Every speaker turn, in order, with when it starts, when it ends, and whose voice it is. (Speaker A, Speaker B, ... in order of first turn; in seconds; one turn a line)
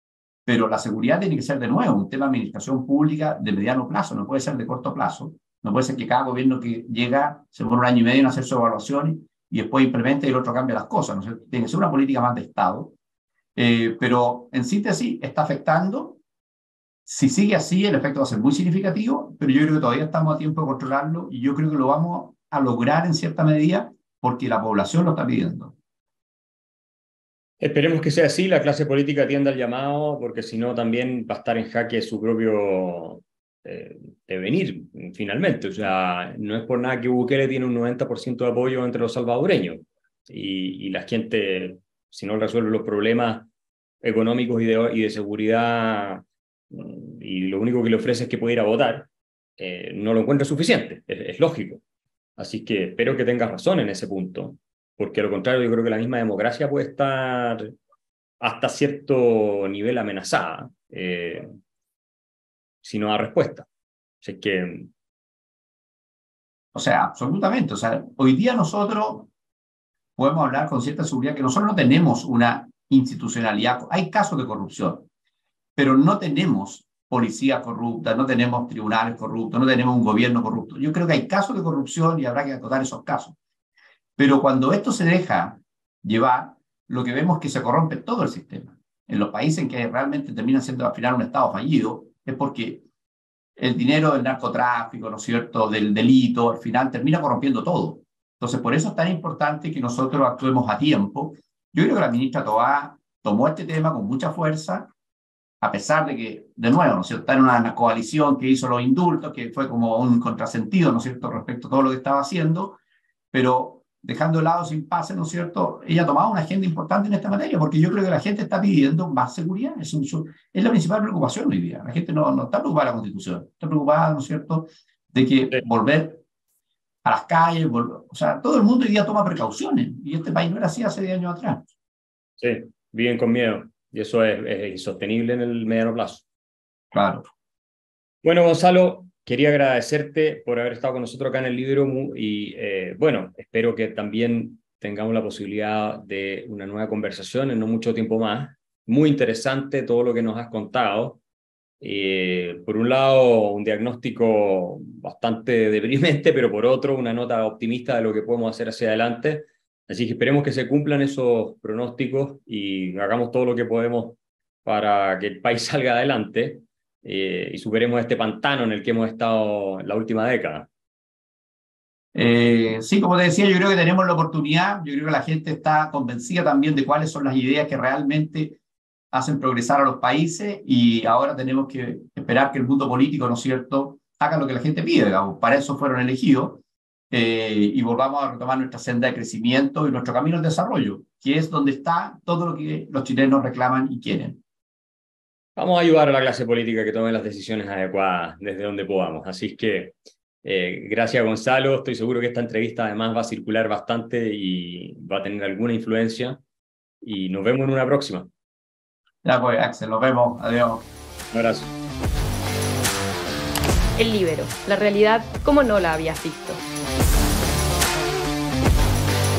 Speaker A: 0.5-12.9
Speaker A: 13.5-16.2
Speaker A: 17.0-25.7
Speaker B: 27.6-43.5
Speaker B: 44.0-51.8
Speaker B: 52.4-57.7
Speaker B: 58.4-61.5
Speaker B: 62.8-63.7
Speaker B: 64.2-64.9
Speaker A: 66.7-69.3
Speaker A: 70.2-75.0
Speaker A: 75.8-83.3
Speaker A: 84.2-92.8
Speaker A: 93.6-104.9
Speaker A: 105.6-112.8
Speaker A: 113.3-126.2
Speaker A: 127.0-131.6
Speaker B: 132.4-136.2
Speaker A: 136.9-137.3
Speaker B: 138.2-151.2
Speaker B: 151.8-170.7
Speaker A: 172.1-178.6
Speaker A: 179.1-194.4
Speaker B: 195.6-206.4
Speaker B: 207.0-208.3
Speaker A: 209.2-210.9
Speaker B: 211.3-211.7
Speaker C: 214.0-216.6